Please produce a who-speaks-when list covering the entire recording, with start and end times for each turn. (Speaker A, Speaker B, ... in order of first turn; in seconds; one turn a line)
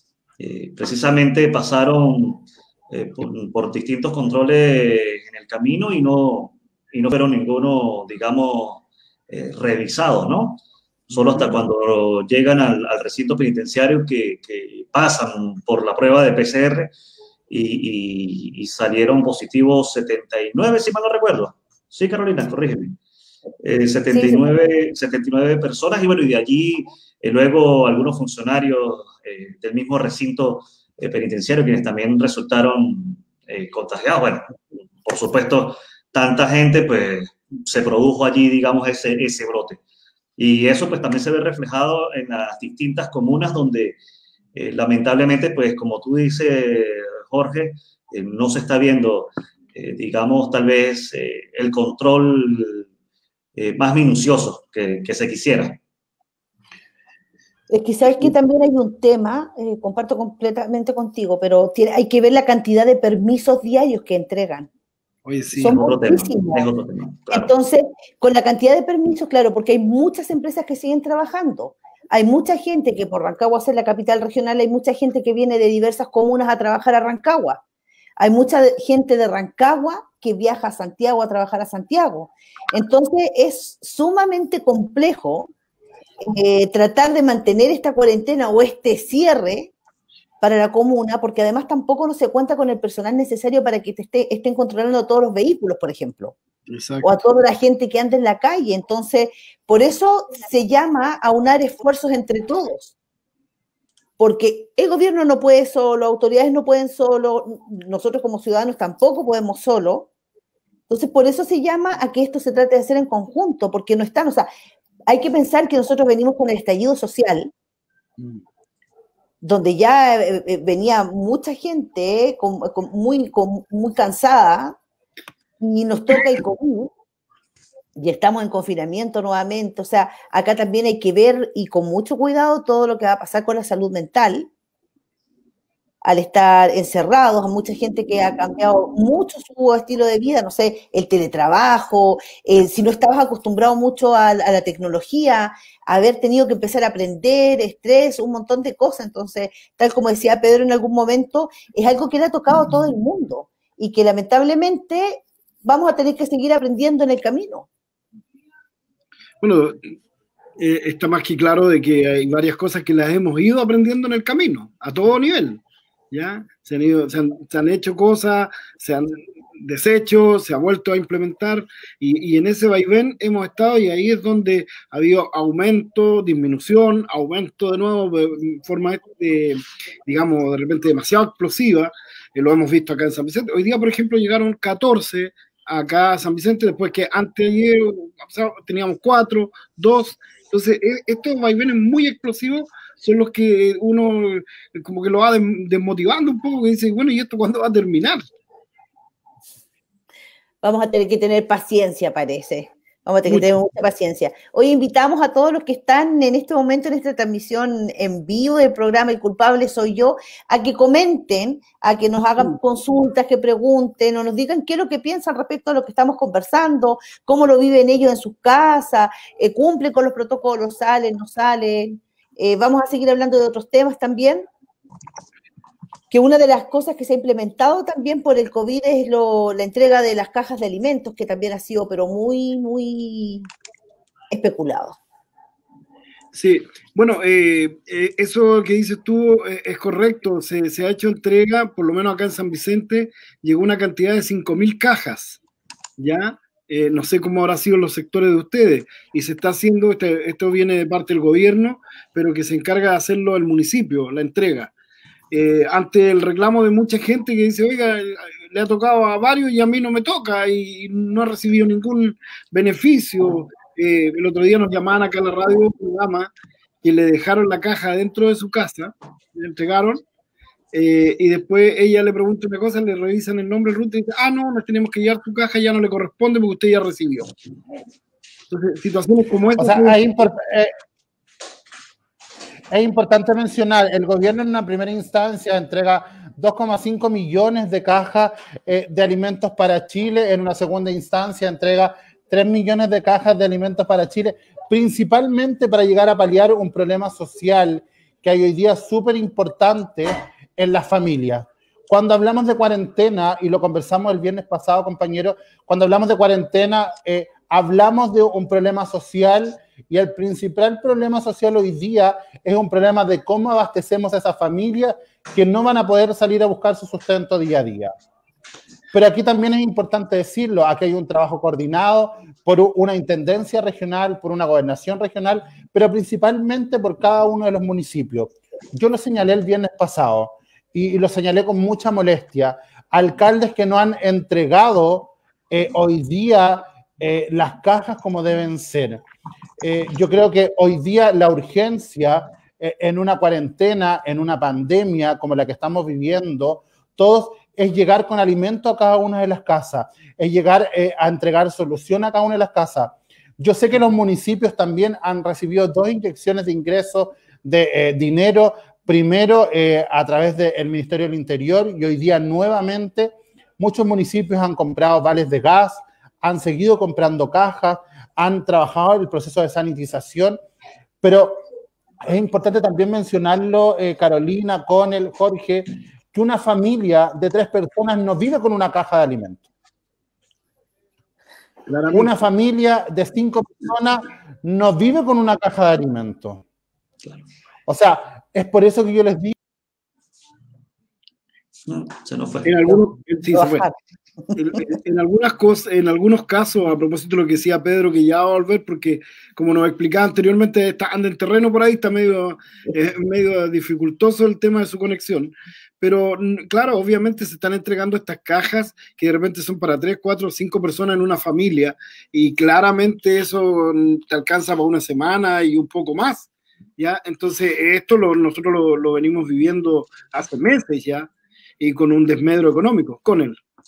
Speaker A: 0.4-16.9
Speaker B: 11.2-11.6
Speaker A: 17.5-23.0
Speaker A: 23.6-39.8
Speaker C: 24.1-24.7
Speaker A: 40.4-44.0
Speaker A: 44.5-52.9
Speaker A: 53.6-55.8
Speaker C: 57.7-64.7
Speaker B: 65.2-65.8
Speaker C: 65.6-66.6
Speaker A: 65.7-67.5
Speaker C: 67.3-77.6
Speaker C: 78.2-85.5
Speaker C: 86.2-89.7
Speaker C: 90.4-96.3
Speaker B: 96.7-97.1
Speaker C: 97.0-103.0
Speaker C: 104.2-110.1
Speaker C: 110.9-114.5
Speaker C: 115.1-117.5
Speaker C: 119.4-124.8
Speaker C: 125.6-126.9
Speaker C: 128.0-134.5
Speaker C: 136.0-157.7
Speaker B: 159.4-159.8
Speaker B: 160.6-198.2
Speaker C: 200.6-224.5
Speaker C: 226.1-233.5
Speaker C: 234.3-235.0
Speaker B: 236.3-245.4
Speaker B: 246.0-254.7
Speaker B: 255.3-266.3
Speaker B: 266.8-270.0
Speaker B: 270.7-277.3
Speaker B: 278.5-280.0
Speaker D: 279.6-280.7
Speaker D: 282.7-317.9
Speaker D: 318.9-339.0
Speaker D: 339.6-370.4
Speaker D: 371.0-371.4
Speaker D: 372.0-379.4
Speaker B: 381.7-382.1
Speaker D: 381.9-386.4
Speaker D: 387.7-389.4
Speaker A: 391.7-392.8
Speaker B: 392.4-393.7
Speaker C: 393.3-393.7
Speaker B: 394.4-423.4